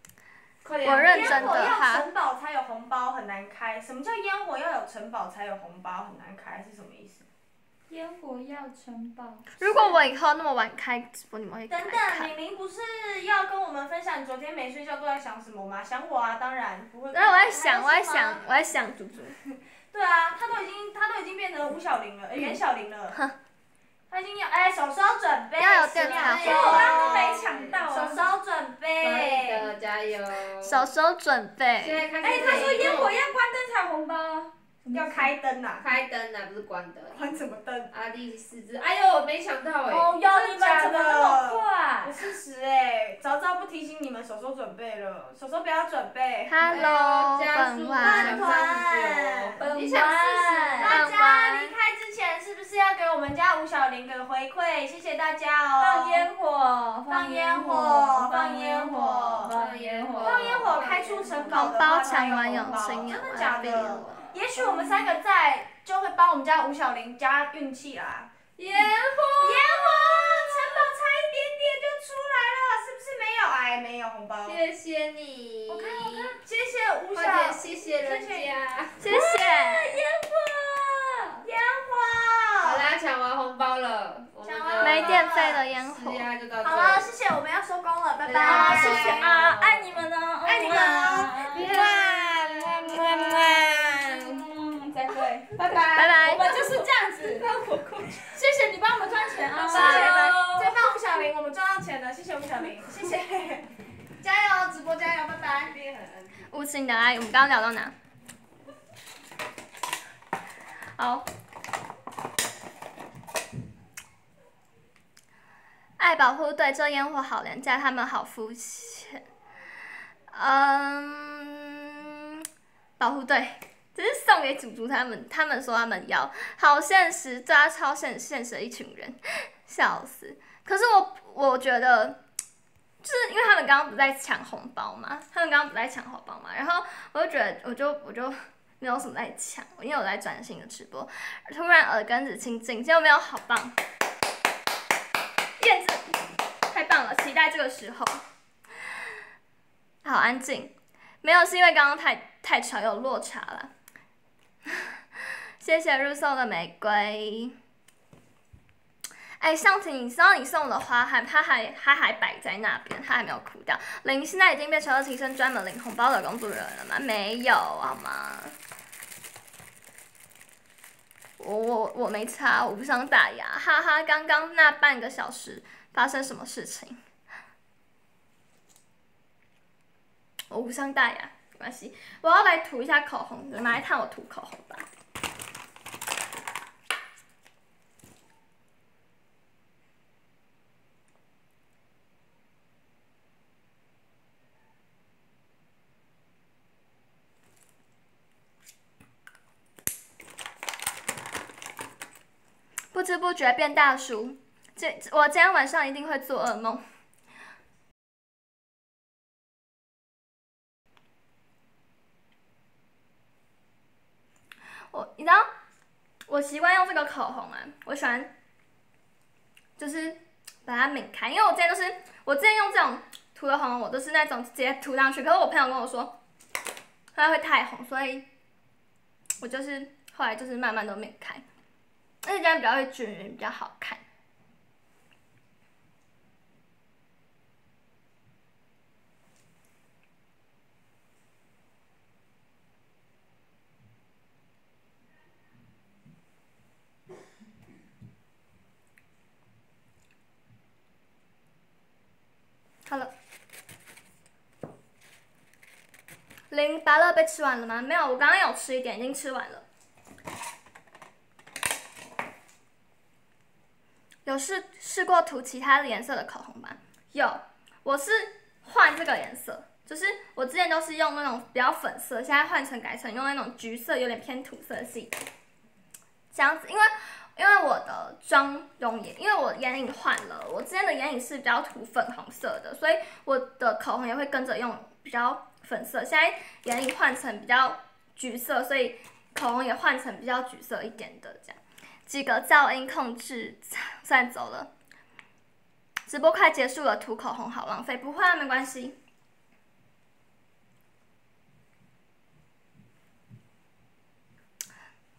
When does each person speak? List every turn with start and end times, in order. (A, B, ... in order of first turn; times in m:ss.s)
0:00.6-0:01.7 A
0:00.8-0:02.1 B
0:00.9-0:07.2 C
0:07.9-0:09.5 D
0:09.6-0:12.3 B
0:11.7-0:18.4 C
0:17.1-0:19.4 B
0:19.9-0:23.2 C
0:24.1-0:29.7 C
0:25.6-0:26.9 B
0:26.0-0:28.1 A
0:26.3-0:28.2 D
0:29.0-0:30.9 A
0:30.6-0:32.0 B
0:31.8-0:33.1 A
0:32.2-0:35.3 D
0:32.3-0:33.1 C
0:34.9-0:35.9 C
0:35.8-0:37.3 A
0:37.1-0:37.9 C
0:37.9-0:40.2 A
0:39.9-0:42.2 D
0:40.2-0:46.9 C
0:46.5-0:48.6 B
0:46.6-0:50.0 A
0:48.0-0:56.3 C
0:49.6-0:51.0 D
0:50.8-0:51.7 B
0:55.8-1:05.0 D
0:57.1-0:59.6 C
0:59.4-1:01.8 A
1:00.2-1:08.3 C
1:01.5-1:04.2 B
1:08.6-1:10.1 A
1:09.4-1:14.6 C
1:14.4-1:16.4 A
1:15.7-1:18.5 C
1:17.1-1:19.0 A
1:19.0-1:19.9 B
1:19.1-1:21.4 D
1:21.4-1:22.9 C
1:22.6-1:27.1 A
1:24.4-1:25.6 C
1:24.8-1:26.2 B
1:26.6-1:29.3 C
1:28.3-1:29.1 B
1:28.3-1:30.0 A
1:28.4-1:32.0 D
1:30.4-1:34.4 C
1:31.5-1:32.6 A
1:32.6-1:35.6 D
1:35.1-1:37.4 C
1:36.0-1:36.7 B
1:36.1-1:41.0 D
1:39.5-1:45.8 C
1:39.7-1:40.4 B
1:45.8-1:46.1 A
1:46.5-1:47.9 B
1:51.0-1:51.3 B
1:56.0-1:59.2 B
2:00.3-2:02.2 B
2:03.0-2:12.2 B
2:13.0-2:23.8 B
2:25.6-2:28.2 B
2:30.0-2:33.7 B
2:35.6-2:37.6 B
2:39.4-2:48.5 B
2:51.4-2:57.0 B
3:00.5-3:04.9 B
3:22.9-3:26.8 B
3:34.9-3:35.5 B
3:36.3-3:38.3 B
3:39.8-3:46.2 B
3:47.2-3:48.3 B
3:49.4-3:51.4 B
3:52.2-3:54.0 B
4:16.5-4:19.6 B
4:24.3-4:35.1 B
4:36.3-4:54.7 B
4:56.1-4:59.0 B